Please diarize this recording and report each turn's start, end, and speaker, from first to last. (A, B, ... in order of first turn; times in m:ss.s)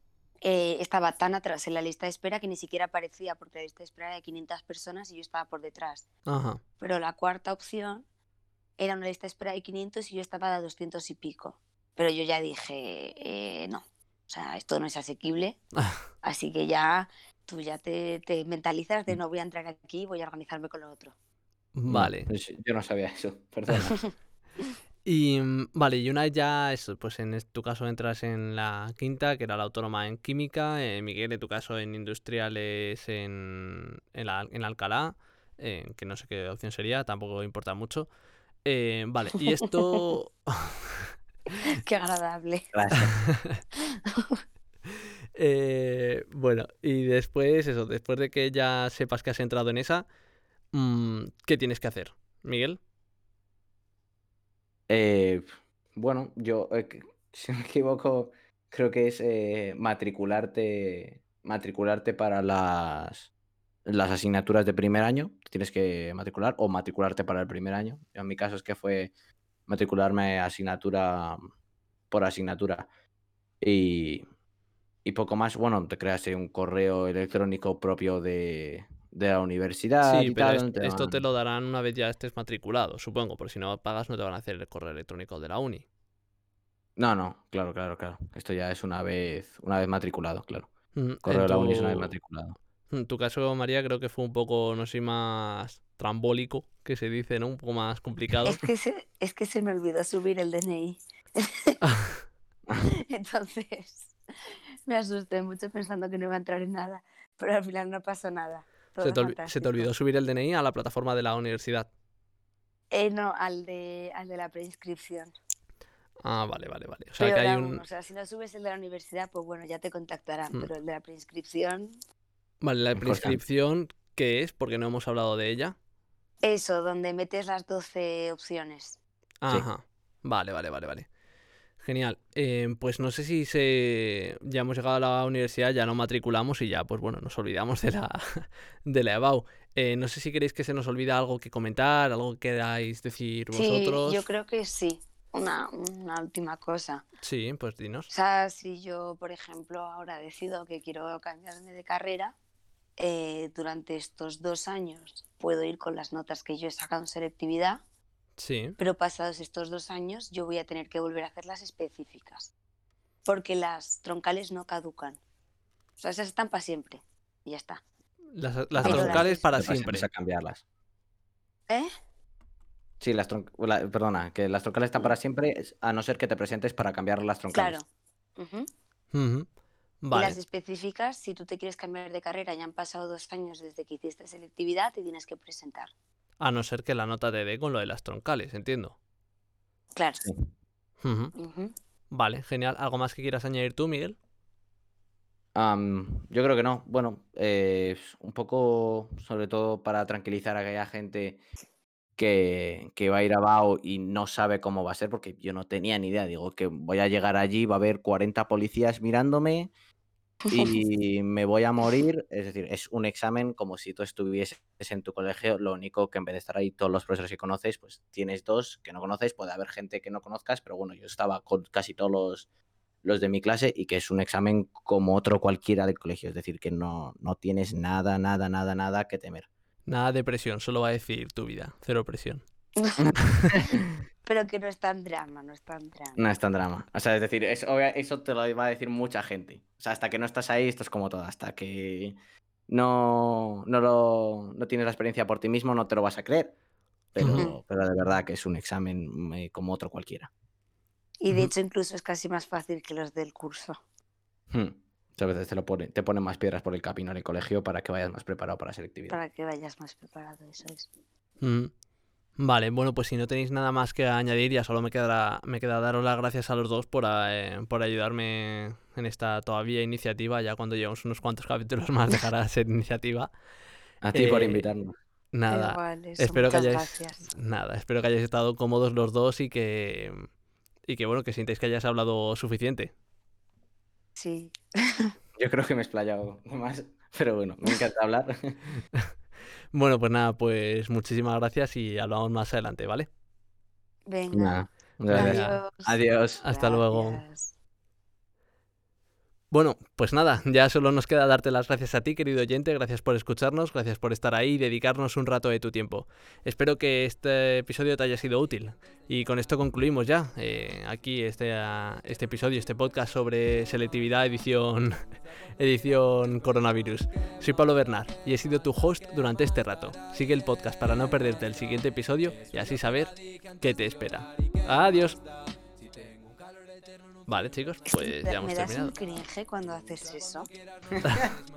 0:00.4-0:06.1 A
0:06.3-0:06.6 B
0:06.8-0:08.0 A
0:08.8-0:15.6 A
0:16.2-0:21.2 A
0:21.8-0:22.3 B
0:21.9-0:24.0 C
0:25.0-0:38.1 B
0:38.6-0:41.1 B
0:39.4-0:40.0 A
0:41.5-0:42.7 A
0:42.7-0:43.2 C
0:43.4-0:43.6 B
0:43.9-0:44.4 A
0:45.4-0:50.1 B
0:50.7-0:52.8 B
0:54.9-1:03.3 C
1:03.9-1:09.1 C
1:09.7-1:11.4 C
1:12.1-1:12.9 C
1:13.6-1:14.2 C
1:15.0-1:21.2 C
1:20.0-1:25.8 B
1:27.0-1:30.7 C
1:31.0-1:32.1 B
1:31.2-1:32.6 C
1:32.9-1:38.6 B
1:38.4-1:41.8 A
1:41.8-1:42.2 B
1:42.8-1:44.1 A
1:44.9-1:49.9 A
1:49.0-1:51.9 B
1:52.9-1:55.3 A
1:56.2-1:57.8 B
1:57.2-2:02.0 A
2:02.6-2:05.8 B
2:03.0-2:03.4 C
2:06.4-2:09.0 A
2:09.4-2:11.1 B
2:11.8-2:24.2 B
2:23.5-2:27.0 A
2:27.2-2:28.1 B
2:28.1-2:32.3 A
2:33.0-2:37.8 A
2:38.4-2:38.8 B
2:38.8-2:42.5 A
2:43.2-2:45.2 A
2:46.0-2:47.8 A
2:48.4-2:50.1 B
2:48.7-2:50.6 C
2:48.8-2:49.5 A
2:53.0-2:57.8 C
2:57.5-2:57.9 A
2:58.4-2:58.7 A
2:59.1-2:59.5 B
3:00.0-3:00.4 B
3:00.1-3:05.9 A
3:06.4-3:09.0 B
3:10.0-3:10.2 A
3:11.0-3:11.3 B
3:11.4-3:11.7 A
3:12.1-3:14.2 B
3:15.6-3:21.4 C
3:22.2-3:29.7 C
3:30.5-3:30.8 A
3:30.5-3:42.5 C
3:43.0-3:49.5 C
3:49.9-3:52.4 B
3:52.8-3:53.1 A
3:53.0-3:53.9 C
3:53.2-3:53.6 B
3:54.3-3:56.2 A
3:56.2-4:02.2 C
4:02.7-4:06.6 C
4:07.2-4:07.5 B
4:07.2-4:10.3 C
4:11.2-4:13.8 A
4:14.5-4:19.2 C
4:19.1-4:20.9 A
4:21.4-4:21.7 B
4:22.4-4:33.3 B
4:34.0-4:34.9 C
4:34.1-4:34.7 B
4:35.3-4:40.3 B
4:35.5-4:37.2 A
4:40.9-4:42.9 B
4:44.2-4:45.1 A
4:45.4-4:48.7 C
4:49.7-4:53.1 B
4:54.1-4:54.6 A
4:54.3-4:56.4 C
4:55.1-4:55.6 B
4:55.1-4:57.5 A
4:56.4-4:57.2 B
4:59.5-5:25.2 B
5:27.3-5:29.0 B
5:27.9-5:30.5 A
5:31.0-5:31.3 C